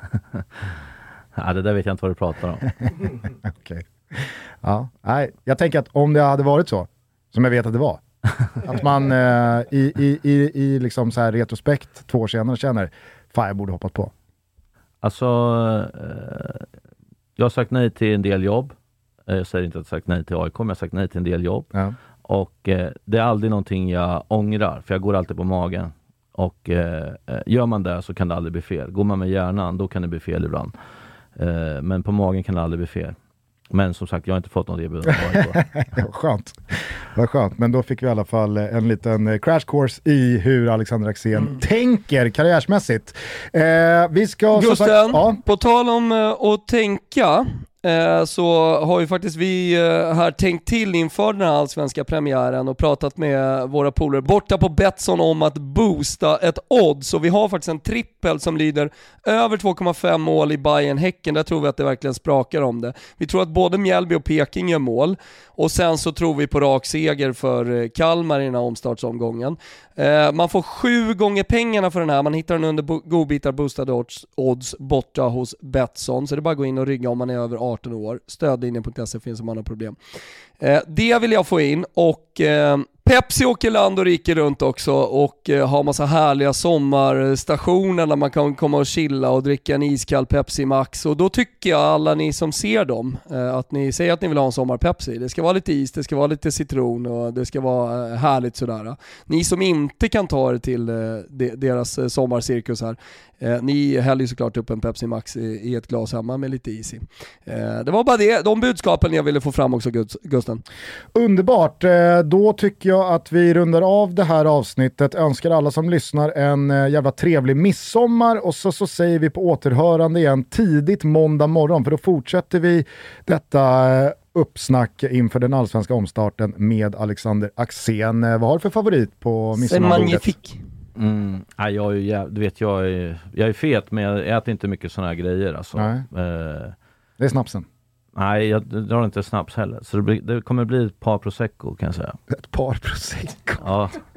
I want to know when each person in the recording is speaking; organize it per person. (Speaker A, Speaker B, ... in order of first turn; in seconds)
Speaker A: 1.4-2.7, 15.0-16.7, 17.4-18.7, 19.3-21.7, 22.3-30.7, 31.4-33.2, 33.7-35.6, 131.0-136.8, 138.2-142.2, 143.6-144.0
Speaker B: 3.4-8.0, 8.6-14.1, 35.8-45.4, 111.1-130.3, 135.8-136.1, 137.2-137.7, 142.3-143.7
Speaker C: 44.5-80.0, 80.6-110.6, 129.6-130.6